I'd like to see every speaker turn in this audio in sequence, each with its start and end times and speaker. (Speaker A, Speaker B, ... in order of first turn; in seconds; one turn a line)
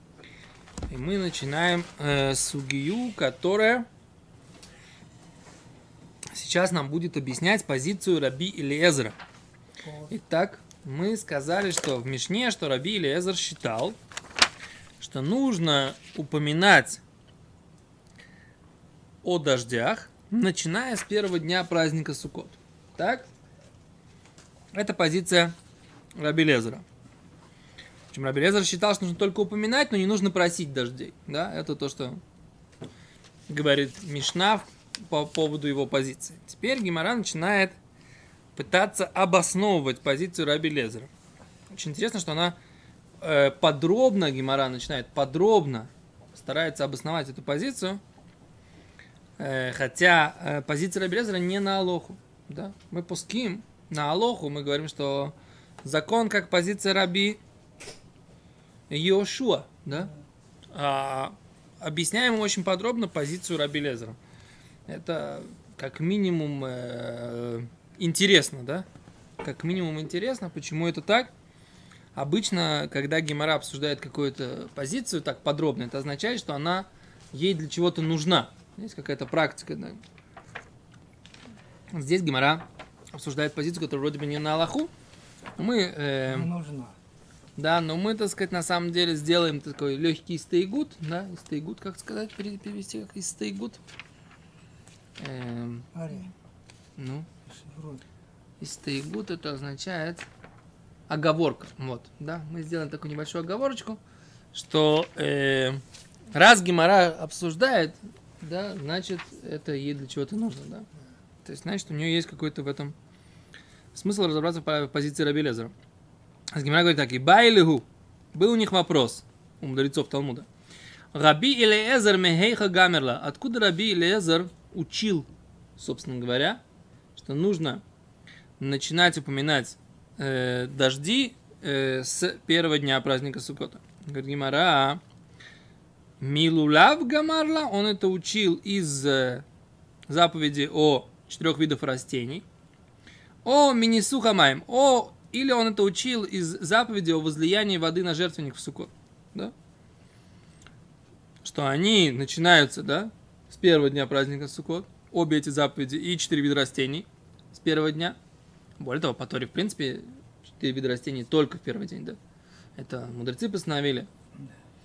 Speaker A: 0.9-3.9
Speaker A: 6.3-9.1
Speaker B: 9.8-10.1
Speaker A: 10.1-13.9
Speaker A: 15.0-17.0
Speaker A: 19.2-23.2
Speaker A: 24.7-25.5
Speaker A: 26.1-26.8
Speaker A: 28.1-32.2
Speaker A: 33.5-37.8
Speaker A: 38.5-41.1
Speaker A: 41.7-42.6
Speaker A: 43.2-48.0
Speaker A: 49.4-57.4
Speaker A: 58.9-60.1
Speaker A: 60.7-64.2
Speaker A: 64.9-68.8
Speaker A: 69.4-71.3
Speaker A: 72.1-80.0
Speaker A: 81.9-84.9
Speaker A: 85.6-86.5
Speaker B: 86.3-87.0
Speaker A: 87.6-93.8
Speaker A: 95.2-95.9
Speaker B: 95.9-96.3
Speaker A: 97.0-97.2
Speaker B: 97.5-98.0
Speaker A: 98.6-100.2
Speaker A: 101.1-104.0
Speaker A: 104.5-105.8
Speaker A: 106.3-110.8
Speaker A: 111.4-112.9
Speaker A: 113.9-115.7
Speaker A: 116.5-120.5
Speaker A: 121.1-126.6
Speaker A: 127.2-127.8
Speaker A: 128.6-135.0
Speaker A: 136.2-139.4
Speaker A: 140.1-142.4
Speaker A: 143.4-149.5
Speaker A: 151.4-158.2
Speaker A: 158.8-162.2
Speaker A: 162.8-164.1